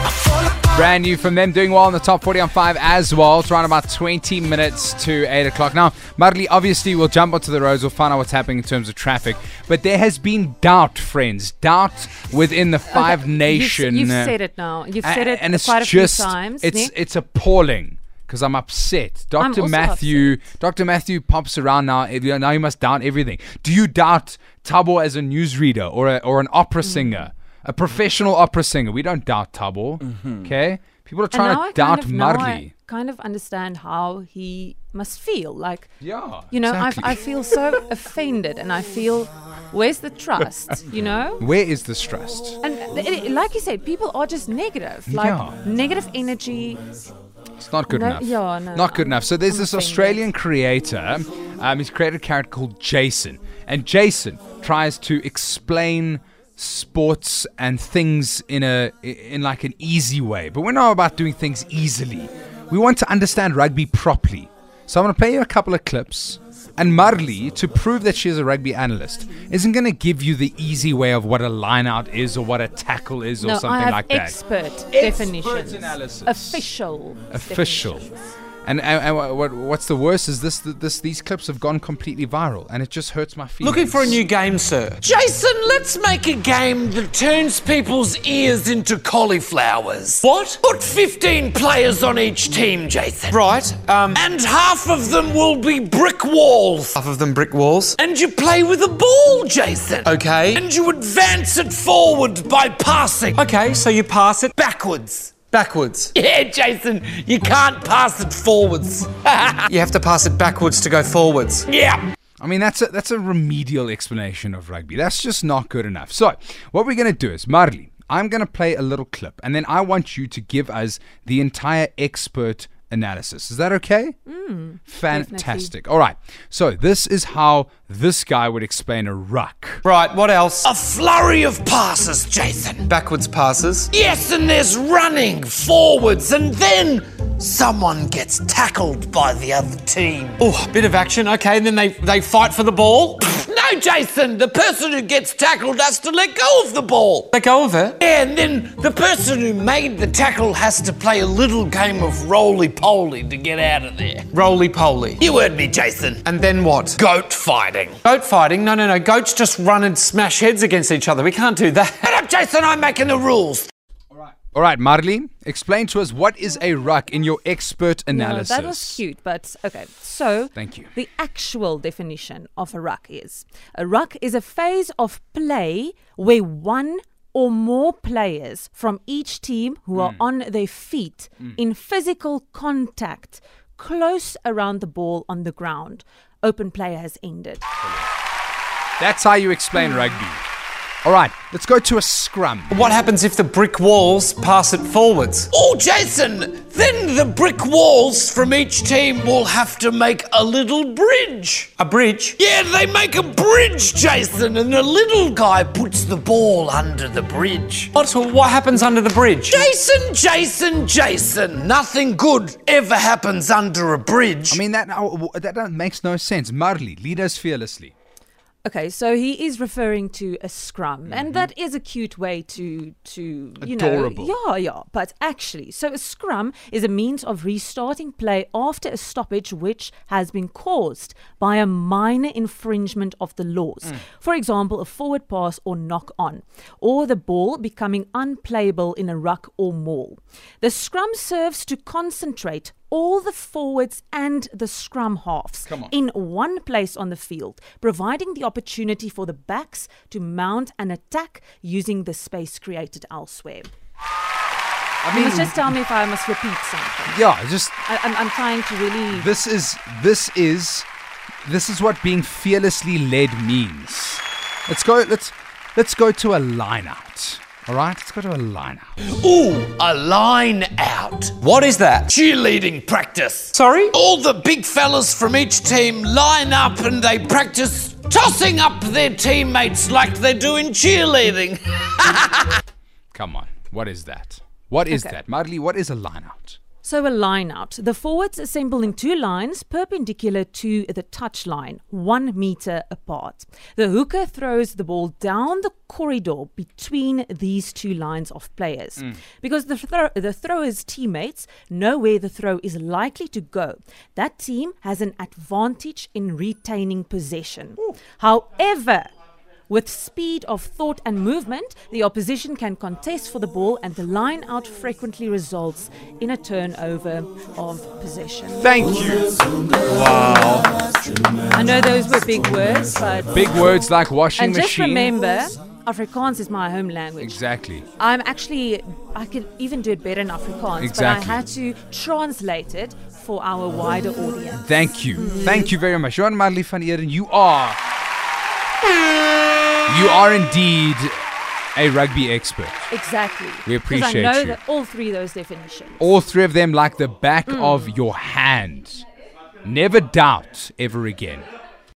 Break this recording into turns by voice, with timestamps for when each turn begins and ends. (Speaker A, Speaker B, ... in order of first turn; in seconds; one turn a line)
Speaker A: 0.7-14.4
Speaker B: 12.9-16.9
Speaker A: 15.0-32.7
Speaker B: 19.4-20.4
Speaker B: 26.9-27.2
Speaker B: 31.3-35.9
Speaker A: 36.0-37.2
Speaker B: 36.5-41.4
Speaker A: 41.4-42.6
Speaker B: 42.6-46.8
Speaker A: 45.1-45.6
Speaker A: 47.6-74.4
Speaker B: 47.9-50.2
Speaker B: 73.4-78.1
Speaker A: 74.9-76.6
Speaker A: 77.3-78.1
Speaker A: 78.7-84.2
Speaker C: 83.6-85.0
Speaker D: 85.0-93.4
Speaker C: 90.2-90.6
Speaker C: 93.3-94.2
Speaker D: 94.1-97.0
Speaker C: 97.0-98.0
Speaker D: 98.0-103.4
Speaker C: 100.0-100.6
Speaker C: 103.3-104.5
Speaker D: 104.5-105.4
Speaker C: 105.5-106.1
Speaker D: 106.2-109.7
Speaker C: 109.7-111.7
Speaker D: 111.7-112.0
Speaker A: 112.4-124.2
Speaker B: 124.3-125.7
Speaker A: 124.9-129.8
Speaker C: 129.8-130.7
Speaker D: 130.6-132.9
Speaker C: 132.8-133.9
Speaker D: 133.9-140.4
Speaker C: 140.4-143.2
Speaker D: 143.2-147.3
Speaker C: 147.3-148.0
Speaker D: 148.0-154.3
Speaker C: 154.3-155.2
Speaker D: 155.2-156.3
Speaker C: 156.2-157.0
Speaker D: 156.9-158.0
Speaker C: 158.1-162.1
Speaker D: 162.0-163.7
Speaker A: 164.1-169.0
Speaker B: 168.1-187.7
Speaker A: 170.6-170.9
Speaker A: 180.0-180.2
Speaker A: 189.0-190.4
Speaker A: 191.0-192.7
Speaker C: 192.7-195.5
Speaker D: 195.5-201.7
Speaker C: 201.8-202.4
Speaker D: 202.4-207.9
Speaker C: 207.9-209.6
Speaker D: 209.5-214.6
Speaker A: 214.5-217.9
Speaker B: 218.6-253.7
Speaker A: 221.1-221.5
Speaker A: 223.6-224.3
Speaker A: 255.0-255.8
Speaker B: 255.1-257.2
Speaker A: 257.1-257.7
Speaker B: 257.8-259.3
Speaker A: 259.1-260.9
Speaker A: 261.4-268.9
Speaker D: 269.1-271.4
Speaker C: 271.4-272.1
Speaker D: 272.1-282.6
Speaker C: 273.5-273.9
Speaker A: 283.1-286.6
Speaker B: 284.9-285.1
Speaker B: 286.8-309.1
Speaker B: 309.7-318.7
Speaker A: 318.6-320.7
Speaker B: 321.5-323.4
Speaker A: 323.3-325.1
Speaker B: 324.4-327.4
Speaker A: 327.2-327.9
Speaker B: 327.9-335.7
Speaker A: 330.8-331.4
Speaker A: 334.5-337.8
Speaker A: 339.9-341.1
Speaker A: 341.8-342.9
Speaker B: 342.9-346.1
Speaker A: 343.6-344.6
Speaker A: 346.0-349.0
Speaker B: 347.5-348.0
Speaker A: 349.6-351.5